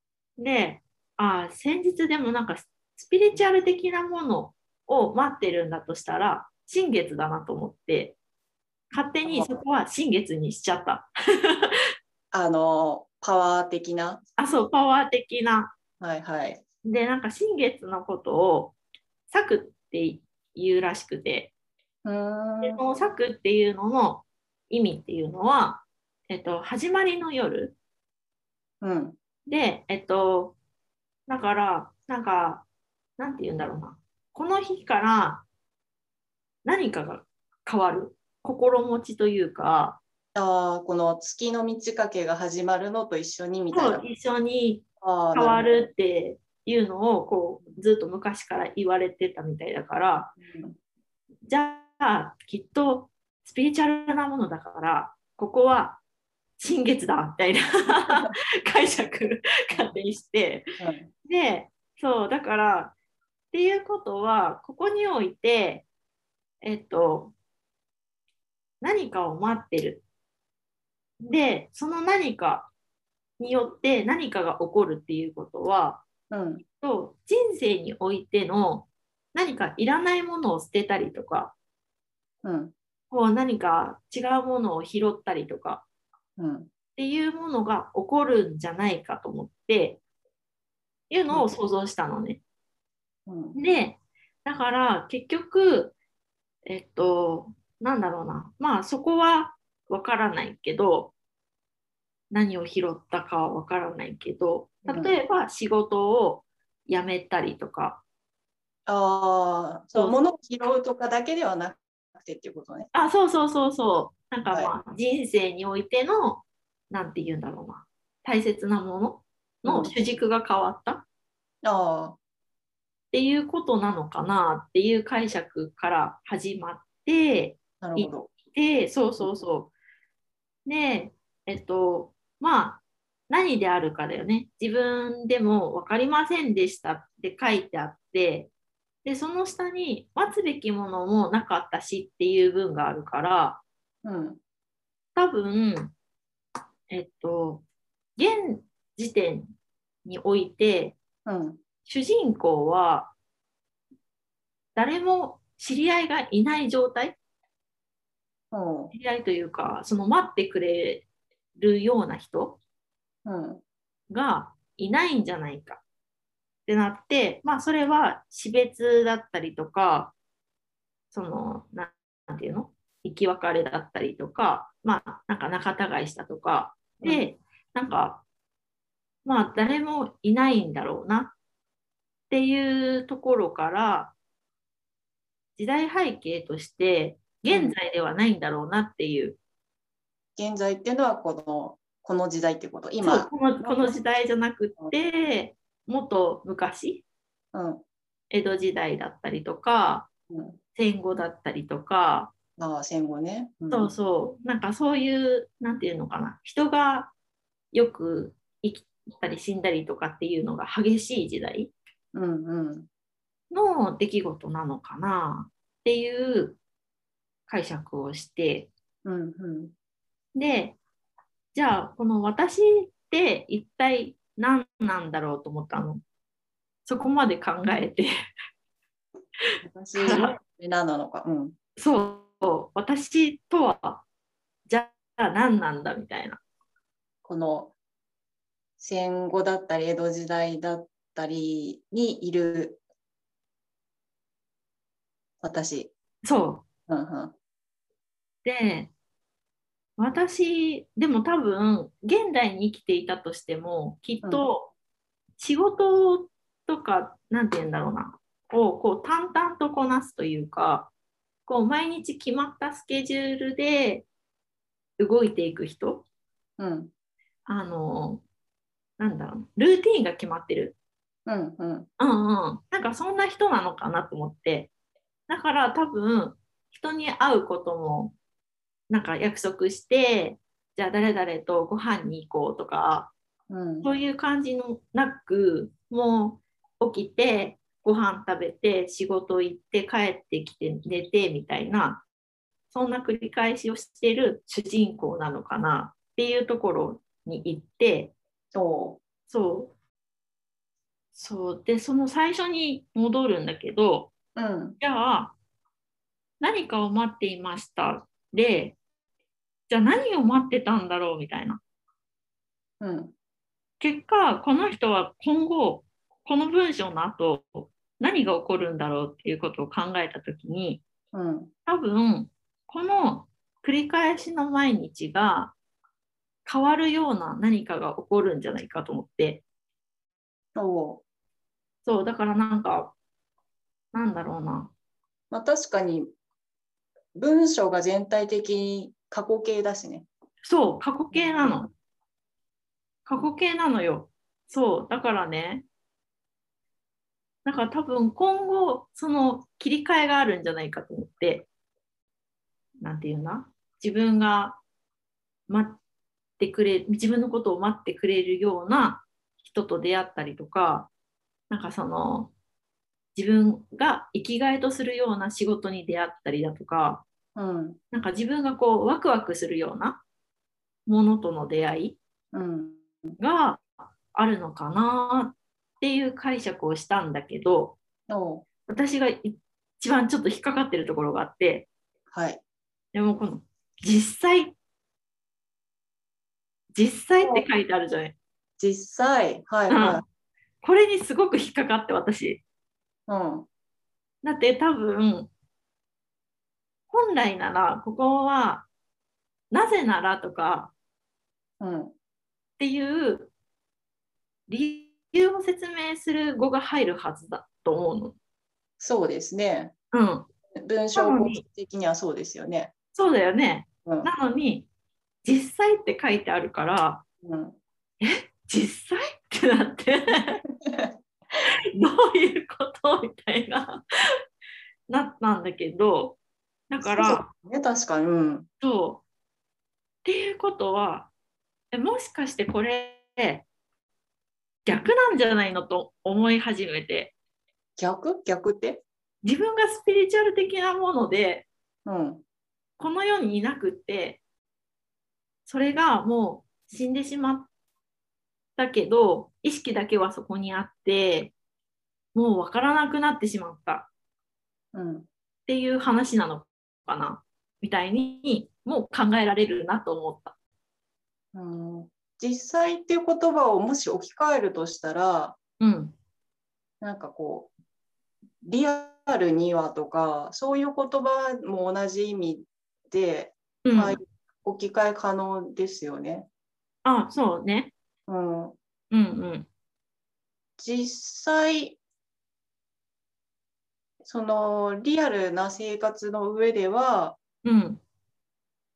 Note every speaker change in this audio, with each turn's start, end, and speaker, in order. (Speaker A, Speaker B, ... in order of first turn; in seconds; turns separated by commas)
Speaker A: 0.4-8.2, Speaker A: 8.9-11.8, Speaker B: 9.2-9.5, Speaker B: 12.3-14.2, Speaker A: 14.4-15.7, Speaker B: 16.0-16.6, Speaker A: 16.8-18.8, Speaker A: 19.3-21.5, Speaker B: 22.1-22.8, Speaker A: 22.6-27.8, Speaker B: 28.8-29.2, Speaker A: 29.5-30.6, Speaker A: 31.3-32.7, Speaker A: 33.2-35.5, Speaker A: 36.6-40.0, Speaker B: 40.4-44.0, Speaker A: 43.7-50.3, Speaker B: 45.0-45.8, Speaker B: 50.4-50.8, Speaker A: 51.5-56.0, Speaker A: 56.6-62.9, Speaker B: 60.8-61.1, Speaker A: 63.5-65.9, Speaker A: 66.6-67.3, Speaker A: 68.8-70.0, Speaker A: 71.2-72.7, Speaker A: 73.4-76.0, Speaker B: 76.3-76.6, Speaker A: 76.8-81.5, Speaker B: 82.4-82.7, Speaker A: 83.1-85.8, Speaker B: 86.4-86.7, Speaker A: 87.0-90.0, Speaker A: 91.1-92.4, Speaker B: 93.3-93.6, Speaker A: 93.5-96.0, Speaker A: 96.7-101.1, Speaker A: 102.3-108.0, Speaker B: 104.9-105.2, Speaker B: 108.9-112.9, Speaker A: 110.0-110.2, Speaker A: 112.9-121.1, Speaker B: 114.5-114.7, Speaker B: 119.6-119.9, Speaker B: 121.6-122.2, Speaker A: 123.1-129.7, Speaker B: 127.8-128.3, Speaker A: 130.7-138.5, Speaker A: 139.0-143.6, Speaker B: 144.0-144.4, Speaker A: 145.2-145.9, Speaker A: 146.9-147.6, Speaker A: 148.2-149.5, Speaker A: 150.1-151.0, Speaker B: 151.3-151.6, Speaker A: 151.9-153.1, Speaker A: 154.8-157.2, Speaker B: 158.5-158.9, Speaker A: 158.9-162.6, Speaker B: 163.2-163.6, Speaker A: 164.1-165.8, Speaker A: 166.7-170.1, Speaker A: 171.1-178.2, Speaker B: 177.0-177.3, Speaker A: 179.2-181.3, Speaker A: 182.3-184.1, Speaker A: 185.6-189.4, Speaker B: 187.5-187.8, Speaker B: 190.4-193.9, Speaker A: 193.0-197.1, Speaker B: 197.5-197.8, Speaker A: 198.3-200.1, Speaker B: 200.3-200.6, Speaker A: 200.8-202.3, Speaker B: 202.6-203.9, Speaker A: 203.7-207.1, Speaker A: 207.7-211.7, Speaker B: 212.1-212.9, Speaker A: 213.5-216.6, Speaker A: 217.5-218.7, Speaker B: 219.1-219.7, Speaker A: 220.3-220.8, Speaker A: 221.5-226.0, Speaker A: 226.9-228.1, Speaker B: 229.6-231.6, Speaker A: 229.9-230.4, Speaker A: 231.8-234.1, Speaker A: 234.7-236.4, Speaker B: 237.2-237.7, Speaker B: 238.8-242.8, Speaker B: 245.4-245.9, Speaker A: 246.2-246.7, Speaker B: 246.9-247.3, Speaker A: 248.4-248.9, Speaker A: 250.0-254.7, Speaker A: 255.4-260.9, Speaker A: 261.4-264.1, Speaker A: 265.0-266.1, Speaker B: 266.6-266.9, Speaker A: 267.4-268.2, Speaker A: 269.0-270.8, Speaker B: 271.3-271.9, Speaker A: 272.0-274.7, Speaker A: 275.3-278.1, Speaker A: 278.9-283.1, Speaker B: 283.5-283.9, Speaker A: 283.8-292.1, Speaker A: 292.7-298.1, Speaker B: 298.5-299.0, Speaker A: 299.3-299.7, Speaker A: 301.1-304.1, Speaker B: 304.4-304.8, Speaker A: 304.8-305.3, Speaker A: 306.4-308.8, Speaker A: 309.7-311.6, Speaker B: 312.8-313.1, Speaker A: 313.8-320.8, Speaker B: 321.1-321.5, Speaker A: 321.7-325.5, Speaker A: 326.4-329.4, Speaker B: 330.6-331.0, Speaker A: 331.8-332.9, Speaker A: 333.9-334.7, Speaker B: 335.3-336.1, Speaker B: 337.1-340.1, Speaker A: 340.4-341.7, Speaker B: 341.1-341.7, Speaker A: 343.1-345.6, Speaker A: 347.4-351.5, Speaker A: 352.8-354.6, Speaker A: 355.5-355.8, Speaker A: 356.4-360.9, Speaker A: 361.5-362.3, Speaker A: 363.1-367.0, Speaker B: 367.4-367.8, Speaker A: 367.9-370.0, Speaker A: 370.9-372.0, Speaker B: 372.3-373.2, Speaker A: 373.2-377.8, Speaker B: 378.1-378.4, Speaker A: 378.7-381.7, Speaker B: 382.1-382.4, Speaker A: 382.9-384.6, Speaker A: 386.7-388.1, Speaker B: 387.2-387.4, Speaker B: 388.6-390.0, Speaker A: 389.7-390.0, Speaker A: 390.6-392.4, Speaker B: 393.1-393.5, Speaker A: 394.2-395.3, Speaker A: 396.9-398.7, Speaker A: 399.5-400.7, Speaker B: 401.6-401.9, Speaker A: 402.6-403.3, Speaker A: 404.5-408.2, Speaker B: 408.8-409.7, Speaker A: 409.9-410.3, Speaker B: 410.6-412.7, Speaker A: 410.9-411.4, Speaker A: 412.9-414.7, Speaker B: 413.8-414.1, Speaker A: 415.2-417.1, Speaker B: 417.2-417.6, Speaker A: 418.0-420.4, Speaker B: 420.6-420.9, Speaker A: 421.4-423.8, Speaker A: 424.9-426.2, Speaker A: 426.7-427.3, Speaker B: 426.8-428.5, Speaker A: 428.6-429.0, Speaker A: 430.1-431.1, Speaker A: 431.7-433.4, Speaker A: 434.7-437.1, Speaker B: 437.8-438.8, Speaker A: 439.2-441.5, Speaker B: 441.9-442.2, Speaker A: 442.8-444.2, Speaker A: 445.4-447.5, Speaker A: 448.6-451.3, Speaker A: 452.1-453.9, Speaker B: 454.7-455.1, Speaker A: 455.5-460.3, Speaker B: 461.3-465.4, Speaker A: 465.6-465.9, Speaker B: 466.8-467.5, Speaker B: 468.4-476.3, Speaker A: 473.6-474.0, Speaker A: 476.8-477.7, Speaker B: 478.1-478.6, Speaker A: 478.9-479.5, Speaker B: 480.6-481.8, Speaker B: 484.0-487.2, Speaker A: 487.4-487.8